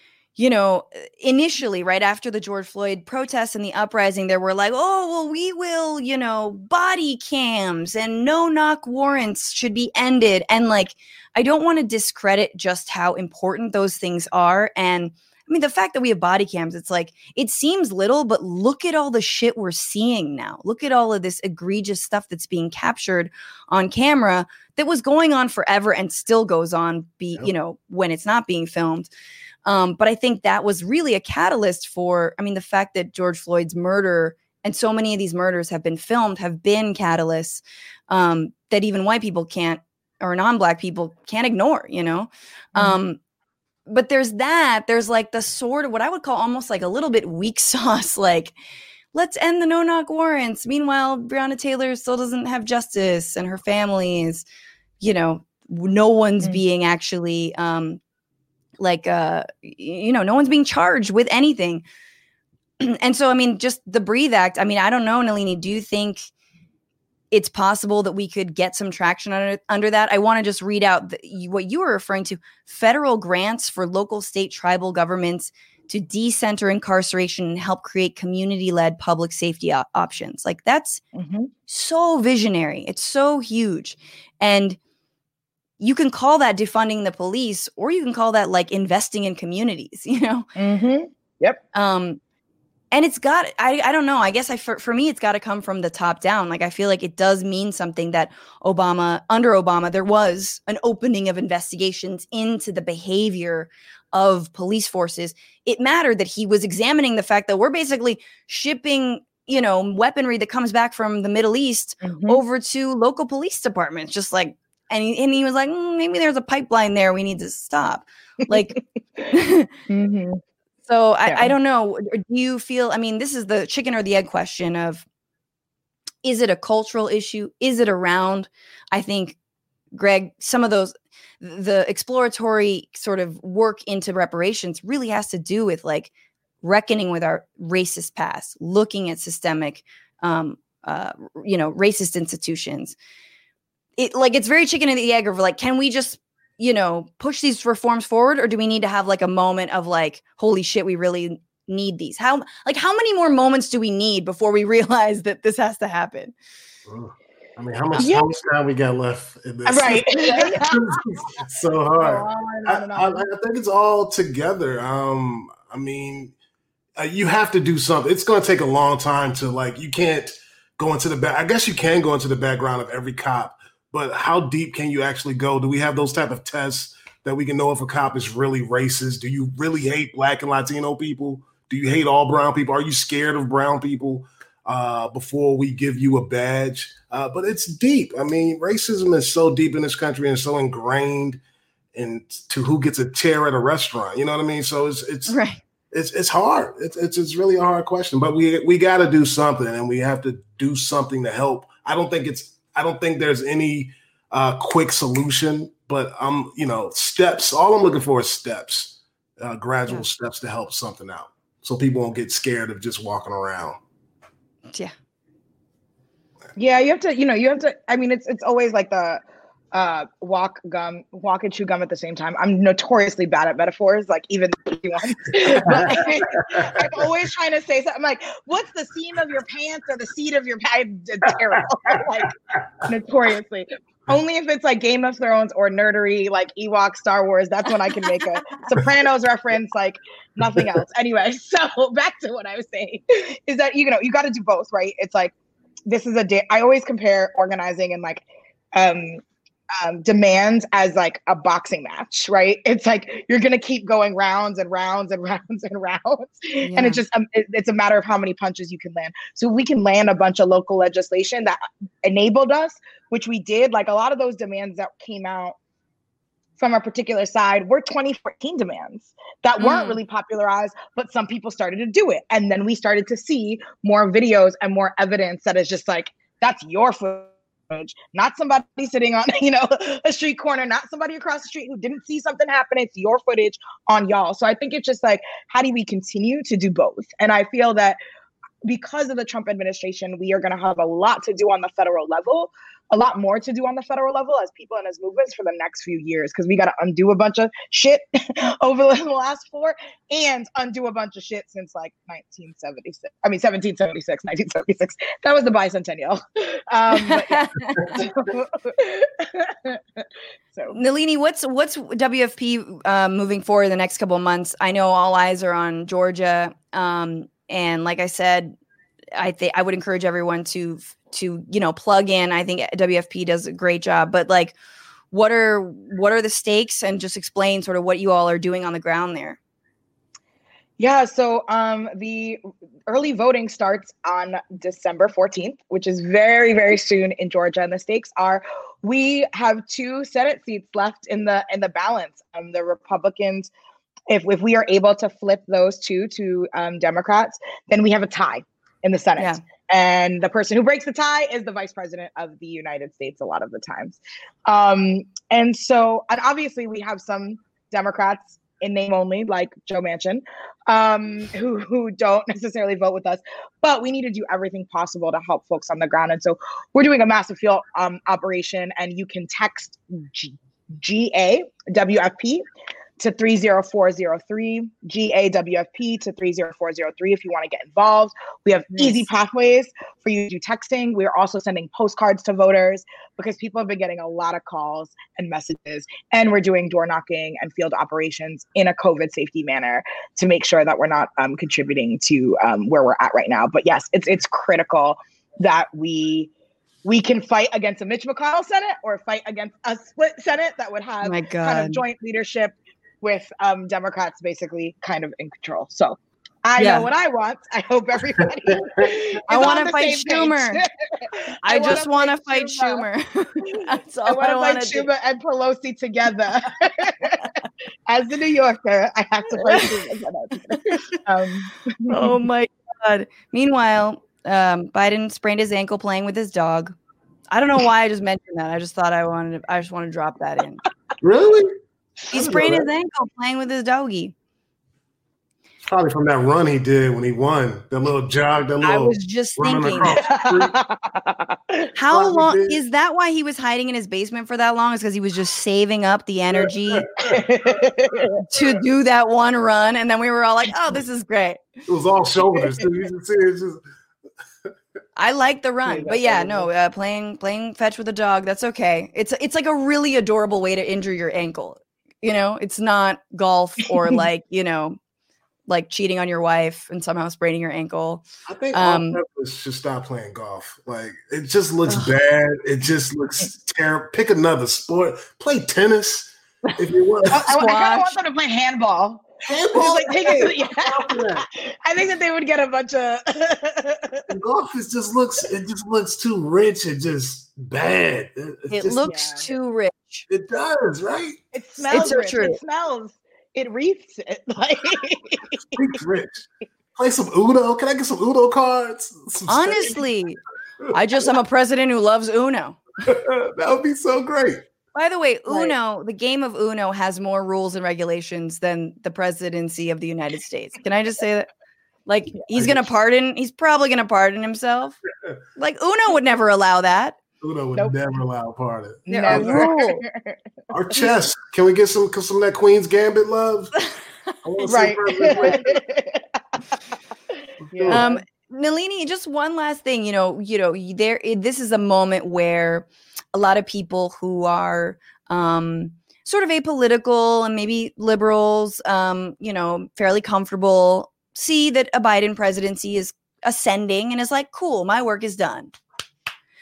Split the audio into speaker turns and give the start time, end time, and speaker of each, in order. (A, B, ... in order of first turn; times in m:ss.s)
0:00.4-0:29.1 A
0:29.6-0:43.2 A
0:42.7-0:43.0 B
0:43.9-0:48.5 A
0:49.1-0:54.4 A
0:55.0-0:58.0 A
0:58.8-1:01.8 A
1:02.8-1:06.3 A
1:07.3-1:21.0 A
1:21.1-1:21.5 B
1:21.7-1:24.8 A
1:25.8-1:30.5 A
1:30.6-1:31.6 B
1:31.7-1:32.2 A
1:32.9-1:58.8 A
1:52.0-1:52.4 B
1:58.5-1:59.3 B
1:59.3-1:59.7 A
1:59.9-2:00.4 B
2:00.9-2:05.0 A
2:01.3-2:01.5 B
2:06.2-2:09.4 A
2:09.9-2:16.1 A
2:16.6-2:23.0 A
2:24.0-2:36.3 A
2:36.8-2:46.3 C
2:38.0-2:38.2 B
2:39.6-2:41.0 B
2:42.0-2:43.2 B
2:47.0-3:11.4 C
3:11.9-3:15.4 C
3:15.3-3:15.6 A
3:15.9-3:33.8 C
3:36.6-3:52.3 B
3:46.5-3:46.9 C
3:52.8-4:05.3 B
4:05.9-4:09.2 B
4:09.8-4:25.5 B
4:16.6-4:17.0 A
4:26.6-4:48.0 B
4:29.6-4:30.0 A
4:48.6-5:10.8 B
5:06.9-5:08.0 A
5:10.7-5:18.5 A
5:19.1-5:24.5 A
5:25.1-5:29.4 A
5:30.8-5:43.5 B
5:44.1-6:12.4 B
6:13.0-6:36.3 B
6:18.8-6:19.1 A
6:36.8-6:52.8 B
6:41.0-6:41.8 A
6:46.6-6:46.9 A
6:49.3-6:50.6 A
6:51.4-6:54.9 A
6:53.5-6:57.3 B
6:57.9-7:02.1 B
7:01.9-7:06.7 A
7:07.3-7:10.6 A
7:11.0-7:11.5 C
7:12.1-7:12.7 C
7:12.1-7:14.1 A
7:15.6-7:20.6 C
7:18.6-7:20.0 A
7:19.9-7:21.6 B
7:21.8-7:26.9 A
7:21.9-7:22.6 C
7:26.3-7:27.2 C
7:27.0-7:28.3 B
7:28.3-7:31.5 A
7:31.7-7:33.6 C
7:35.0-7:44.8 A
7:35.7-7:36.5 B
7:45.5-7:49.0 A
7:48.3-7:57.2 C
7:57.1-8:04.0 B
7:57.2-7:58.0 A
7:59.2-8:01.2 C
8:04.1-8:09.0 C
8:08.5-8:10.0 A
8:08.8-8:09.3 B
8:10.1-8:11.2 C
8:11.3-8:15.4 B
8:11.7-8:12.4 A
8:15.5-8:19.8 C
8:19.3-8:20.2 A
8:20.7-8:22.6 A
8:22.8-8:24.4 C
8:24.7-8:31.3 A
8:31.9-8:34.8 A
8:32.3-8:32.6 C
8:35.4-8:37.0 A
8:37.2-8:39.5 C
8:38.9-8:40.2 B
8:38.9-8:39.8 A
8:40.5-8:43.5 C
8:44.2-8:45.6 C
8:44.4-8:46.2 B
8:47.5-8:47.8 C
8:47.5-8:48.0 B
8:47.7-9:05.5 A